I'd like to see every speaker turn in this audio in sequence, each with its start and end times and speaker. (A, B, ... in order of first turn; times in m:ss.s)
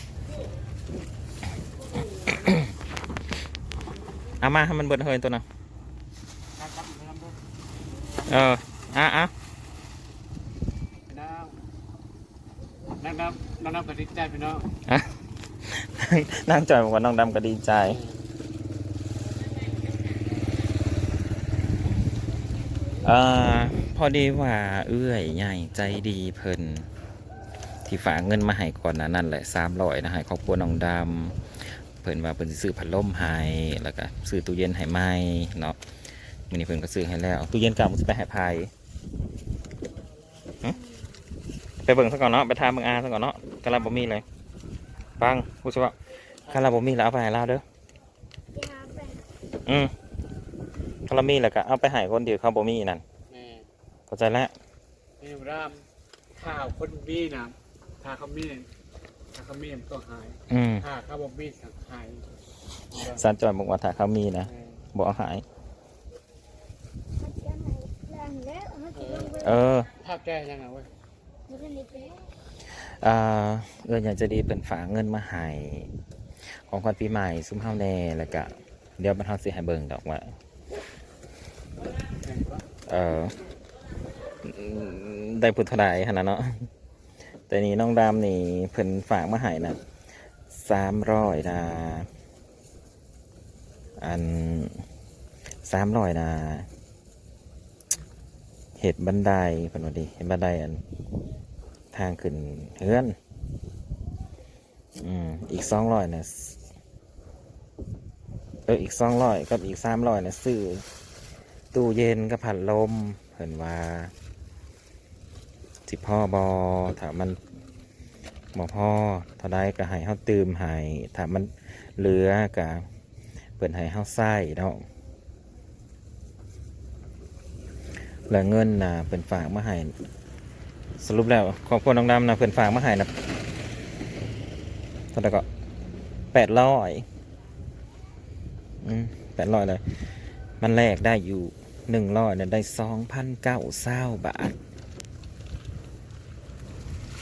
0:04.4-0:05.4 A
0:06.6-0:07.4 B
0:08.3-0:09.3 A
0:11.1-0:11.6 B
0:13.0-0:14.7 B
0:14.9-0:15.1 A
0:15.6-0:18.0 A
0:17.8-0:18.3 B
0:23.0-0:26.9 A
0:27.8-0:31.4 A
0:32.0-0:35.8 A
0:36.5-0:38.7 A
0:41.8-0:44.2 A
0:45.2-0:46.0 A
0:46.4-0:46.8 B
0:46.5-0:47.6 A
0:48.5-0:49.3 C
0:49.6-0:49.9 A
0:51.1-0:53.0 A
0:53.3-0:53.7 B
0:54.1-0:54.5 A
0:55.2-0:58.6 B
0:59.3-1:02.2 B
1:00.5-1:00.9 A
1:02.9-1:03.2 B
1:02.9-1:05.4 A
1:04.4-1:04.8 B
1:07.2-1:09.6 C
1:08.9-1:09.4 B
1:09.4-1:09.9 A
1:10.0-1:10.9 B
1:11.5-1:12.3 C
1:12.7-1:15.9 A
1:16.6-1:20.3 A
1:22.2-1:22.6 B
1:22.9-1:23.4 A
1:24.4-1:26.7 A
1:27.5-1:29.8 A
1:30.5-1:32.1 A
1:34.0-1:34.8 A
1:35.6-1:36.7 A
1:38.8-1:40.8 A
1:41.9-1:43.2 A
1:45.0-1:46.6 A
1:48.6-1:50.8 A
1:51.7-1:54.1 A
1:55.9-1:57.4 A
1:58.5-2:02.8 A
2:03.6-2:04.8 A
2:08.3-2:09.9 A
2:11.0-2:13.1 A
2:15.1-2:15.4 A
2:16.3-2:17.0 A
2:18.8-2:19.8 A
2:20.6-2:24.5 A